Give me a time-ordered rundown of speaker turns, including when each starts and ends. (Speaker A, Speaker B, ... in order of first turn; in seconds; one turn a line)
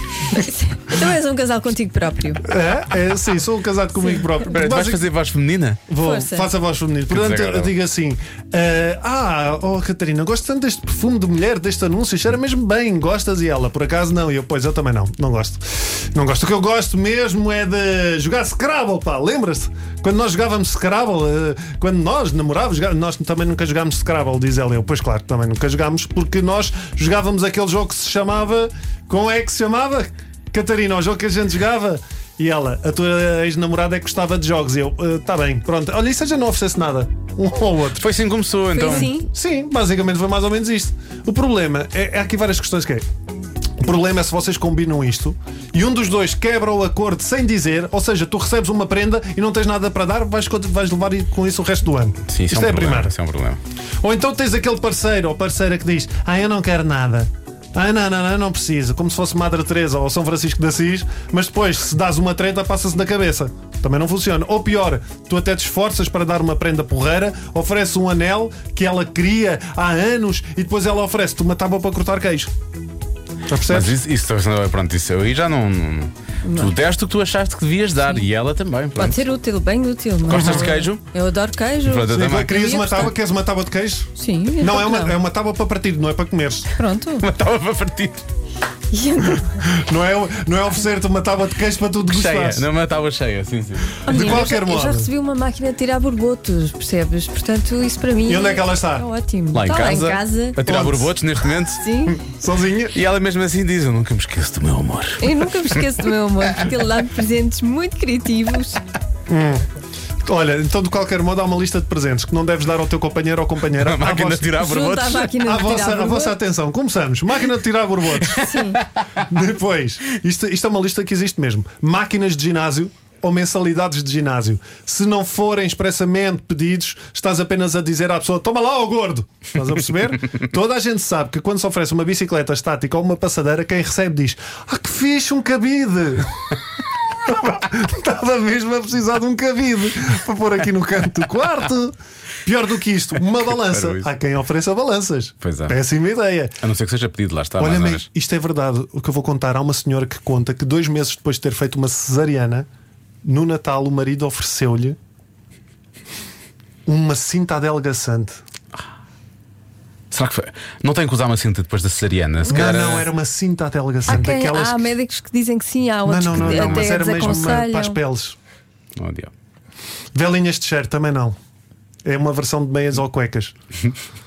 Speaker A: 0.3-2.4
Speaker B: 2.4-5.0
Speaker C: 4.5-5.8
Speaker B: 5.9-38.0
Speaker A: 6.0-6.5
Speaker C: 7.1-7.7
Speaker C: 38.0-39.1
Speaker A: 38.7-39.3
Speaker B: 38.9-43.1
Speaker B: 43.8-53.1
Speaker C: 52.3-53.6
Speaker B: 54.0-72.5
Speaker B: 73.5-74.0
Speaker C: 73.7-79.2
Speaker A: 76.4-76.7
Speaker A: 79.0-83.1
Speaker C: 80.3-81.0
Speaker B: 80.3-80.7
Speaker C: 81.8-83.1
Speaker B: 82.1-86.7
Speaker A: 84.2-85.2
Speaker A: 86.7-87.2
Speaker C: 87.2-88.2
Speaker A: 88.9-89.6
Speaker B: 89.6-92.7
Speaker C: 92.0-94.4
Speaker B: 94.0-95.1
Speaker A: 94.1-100.6
Speaker B: 98.2-99.0
Speaker C: 99.5-101.8
Speaker B: 100.6-101.2
Speaker A: 101.8-102.2
Speaker B: 102.2-102.9
Speaker C: 102.9-106.0
Speaker A: 105.2-108.8
Speaker B: 109.3-109.7
Speaker B: 110.2-114.6
Speaker C: 113.8-115.4
Speaker A: 114.6-116.3
Speaker B: 115.4-118.4
Speaker A: 118.3-118.8
Speaker B: 119.2-136.4
Speaker B: 137.2-146.6
Speaker C: 143.6-144.1
Speaker C: 145.4-145.8
Speaker C: 146.6-148.1
Speaker B: 147.6-152.7
Speaker B: 153.2-155.0
Speaker B: 156.8-158.4
Speaker C: 160.1-163.1
Speaker B: 162.5-164.9
Speaker A: 164.1-168.0
Speaker B: 166.1-168.4
Speaker C: 166.3-167.4
Speaker C: 169.0-169.3
Speaker B: 170.1-171.4
Speaker B: 172.0-173.5